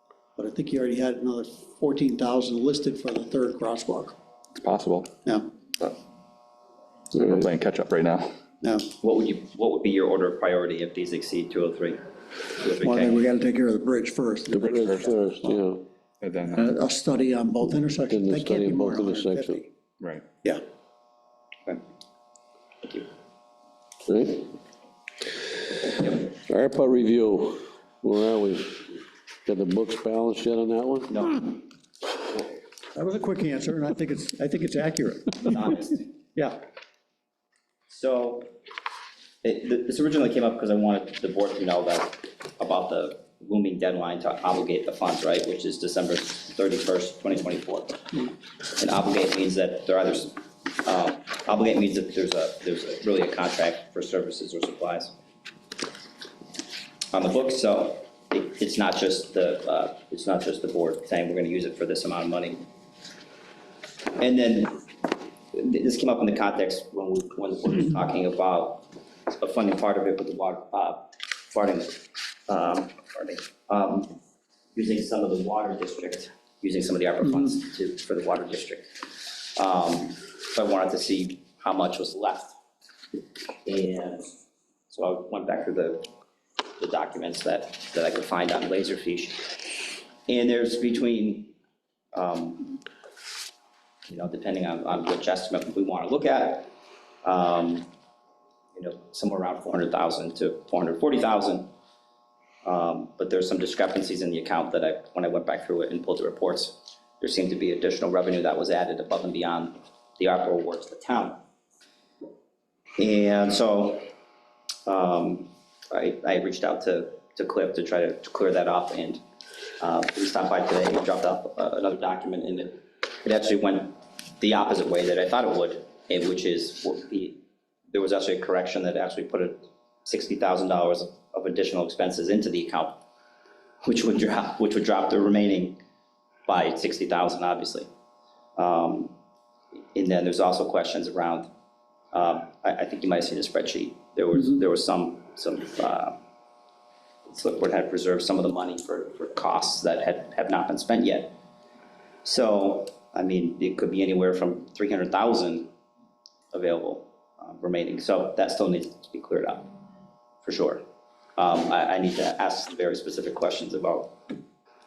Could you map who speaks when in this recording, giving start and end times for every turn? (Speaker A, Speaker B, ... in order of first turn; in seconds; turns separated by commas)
Speaker A: 0.4-4.2, Speaker B: 4.6-5.1, Speaker A: 5.2-5.5, Speaker B: 7.2-8.3, Speaker A: 8.6-8.9, Speaker C: 9.0-12.0, Speaker C: 12.6-13.2, Speaker A: 12.8-14.8, Speaker D: 14.5-15.8, Speaker B: 14.6-15.1, Speaker B: 16.2-16.6, Speaker A: 16.5-19.7, Speaker D: 18.1-19.6, Speaker C: 22.8-23.1, Speaker D: 24.1-24.5, Speaker D: 25.4-31.2, Speaker C: 31.1-31.6, Speaker A: 33.0-35.8, Speaker C: 35.4-36.1, Speaker C: 37.9-38.5, Speaker C: 39.4-55.1, Speaker C: 57.1-62.7, Speaker C: 64.2-64.9, Speaker C: 65.5-74.2, Speaker C: 74.8-82.5, Speaker C: 83.7-84.3, Speaker C: 84.9-86.1, Speaker C: 86.8-91.5, Speaker C: 92.1-92.8, Speaker C: 94.1-96.7, Speaker C: 97.2-97.9, Speaker C: 98.7-101.7, Speaker C: 102.6-111.4, Speaker C: 113.0-114.1, Speaker C: 114.9-119.2, Speaker C: 119.8-127.4, Speaker C: 127.9-133.0, Speaker C: 133.8-135.8, Speaker C: 136.5-137.9, Speaker C: 138.6-139.1, Speaker C: 139.9-141.5, Speaker C: 142.1-146.2, Speaker C: 147.3-151.4, Speaker C: 152.2-155.7, Speaker C: 156.5-159.7, Speaker C: 160.4-160.8, Speaker C: 161.4-164.3